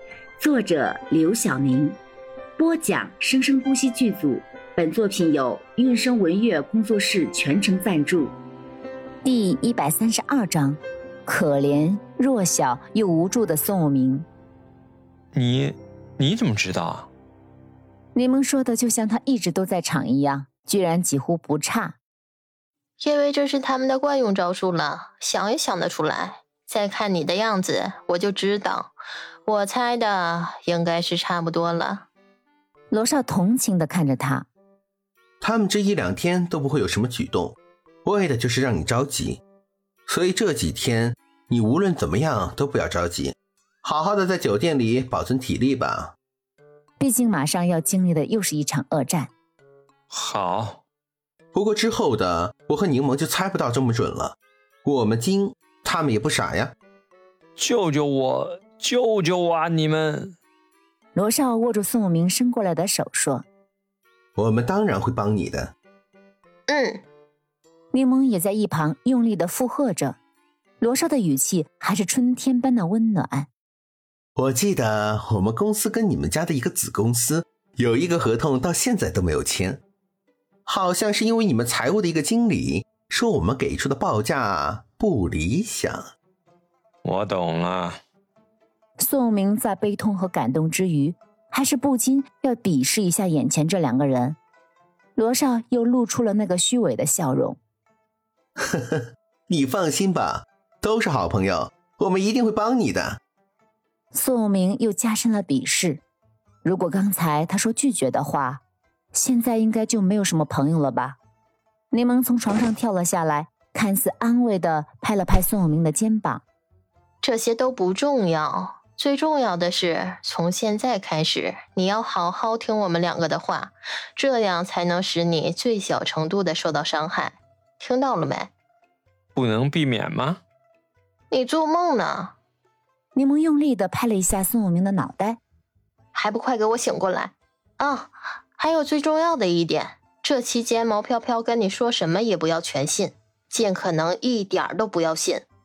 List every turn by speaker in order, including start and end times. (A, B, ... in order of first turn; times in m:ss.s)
0:00.4-0:02.0 A
0:02.6-0:08.3 A
0:09.2-0:14.3 B
0:15.3-0:17.1 C
0:18.1-0:22.0 B
0:23.0-0:28.9 D
0:29.4-0:32.0 D
0:32.9-0:34.5 B
0:35.4-0:39.4 E
0:40.1-0:46.1 E
0:47.0-0:49.3 B
0:50.1-0:50.8 C
0:51.5-0:56.7 E
0:57.6-1:00.4 C
1:01.2-1:03.4 B
1:04.4-1:05.7 E
1:06.7-1:07.0 D
1:07.9-1:10.2 B
1:10.8-1:13.5 B
1:14.4-1:19.8 E
1:20.6-1:26.0 E
1:27.0-1:28.0 C
1:29.0-1:34.4 B
1:35.2-1:37.6 B
1:38.7-1:43.2 E
1:44.1-1:46.0 B
1:46.6-1:48.6 B
1:49.1-1:51.2 B
1:51.9-1:56.4 B
1:57.2-2:08.5 D
2:09.3-2:10.4 C
2:11.3-2:12.3 D
2:13.1-2:15.4 B
2:16.1-2:25.4 D